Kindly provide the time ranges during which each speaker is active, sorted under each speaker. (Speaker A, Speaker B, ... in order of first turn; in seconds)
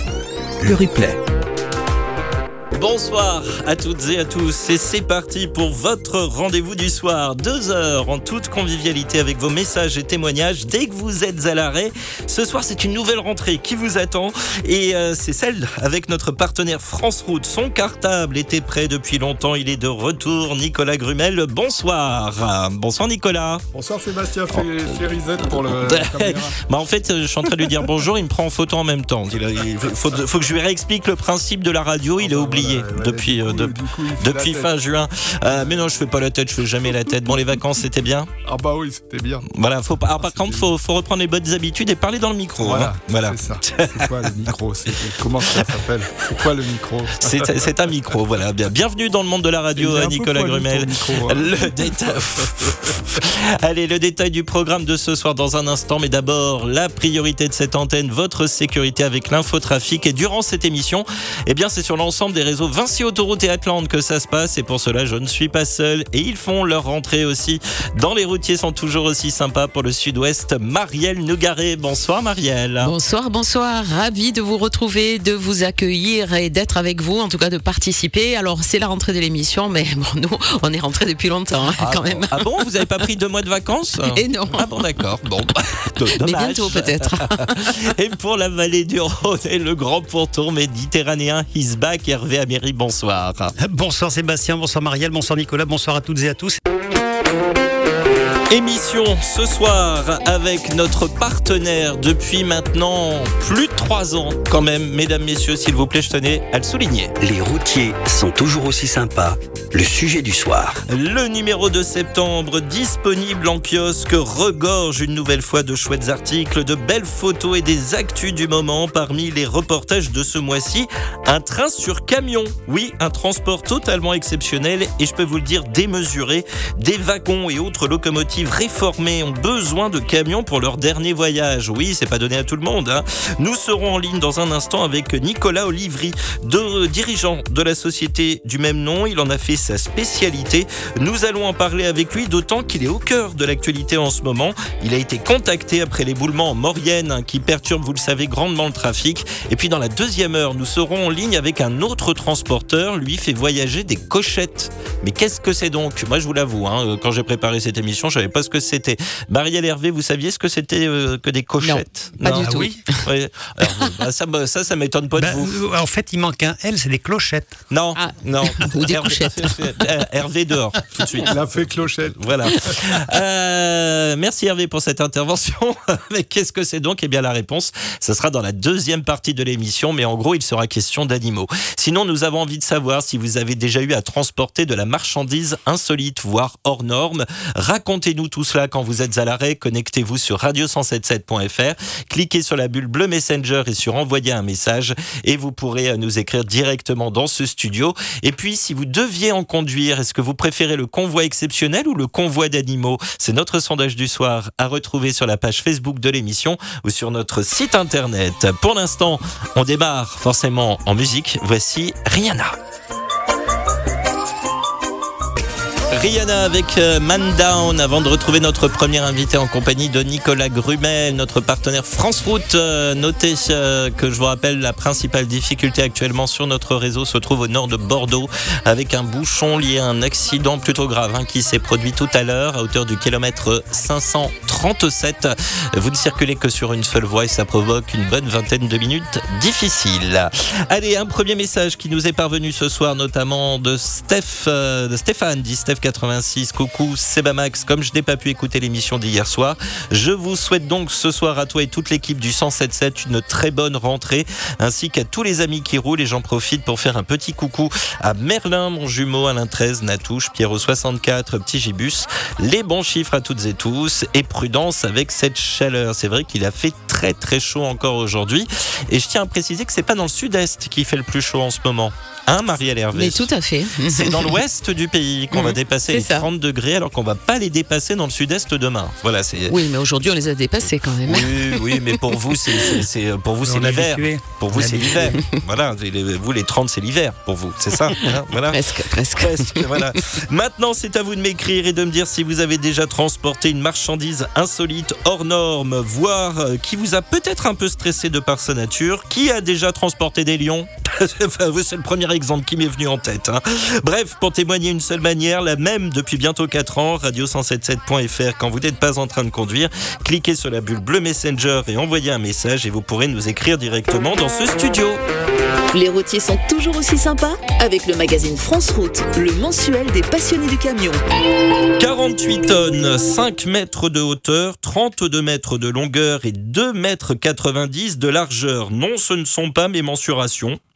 Speaker A: 0.6-1.2, 107.2-110.8
Speaker B: 2.7-23.6, 24.5-38.3, 39.5-44.9, 45.5-45.7, 47.2-72.9, 81.8-93.5, 98.5-107.1, 110.9-165.6, 167.7-212.6, 215.9-273.3, 273.8-279.6, 281.1-315.0, 321.8-330.6
Speaker C: 23.7-26.6, 27.4-27.9, 32.2-34.7, 35.5-35.9, 38.4-39.5, 40.2-40.7, 42.6-47.7, 49.8-51.9, 171.2-172.2
Speaker D: 72.8-82.8, 84.1-84.9, 86.0-87.7, 161.6-163.0, 167.9-169.8, 272.9-274.4, 275.3-276.2, 279.5-281.8, 288.5-290.0
Speaker E: 93.6-96.6, 162.3-162.9, 165.2-167.6, 283.4-285.2
Speaker F: 315.7-321.0